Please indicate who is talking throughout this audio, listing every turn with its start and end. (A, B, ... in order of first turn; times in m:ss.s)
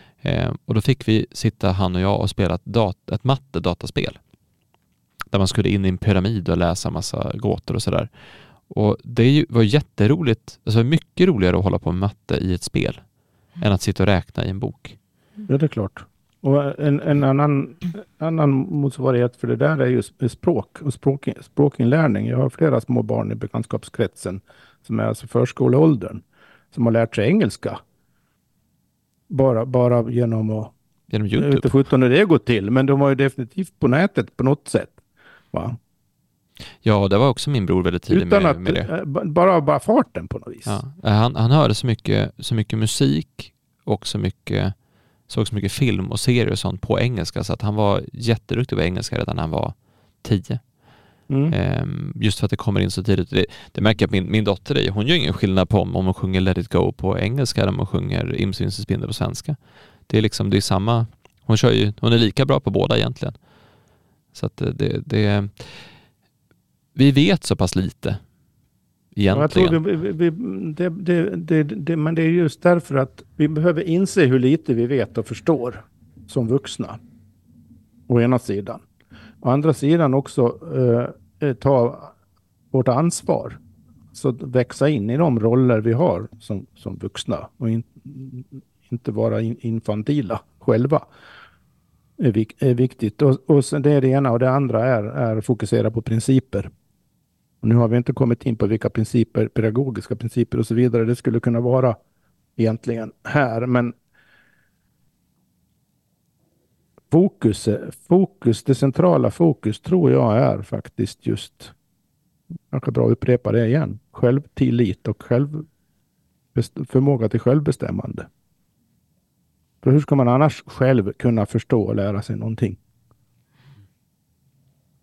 0:00.2-0:04.2 A
0:05.3-0:08.1 A
0:08.7-0:13.0 A
0:13.6-0:15.0 A
0:15.5-0:27.8 B
0:29.3-0:30.7 B
0:31.1-0:31.7 A
0:31.4-0:35.0 B
0:35.5-0:35.8 B
0:36.8-0:38.9 A
0:38.1-0:40.8 B
0:40.6-0:44.7 A
0:45.3-0:50.6 A
0:51.3-0:51.6 B
0:51.5-0:59.6 A
1:00.1-1:03.4 A
1:04.3-1:05.8 A
1:06.9-1:08.2 A
1:09.1-1:09.8 A
1:09.3-1:17.0 B
1:18.1-1:18.8 B
1:19.4-1:22.1 B
1:22.7-1:23.6 B
1:24.1-1:31.1 B
1:32.2-1:36.7 B
1:37.6-1:42.0 B
1:42.6-1:43.9 B
1:47.1-1:51.7 B
1:52.7-1:55.7 B
1:56.6-1:58.3 B
1:59.8-2:02.8 B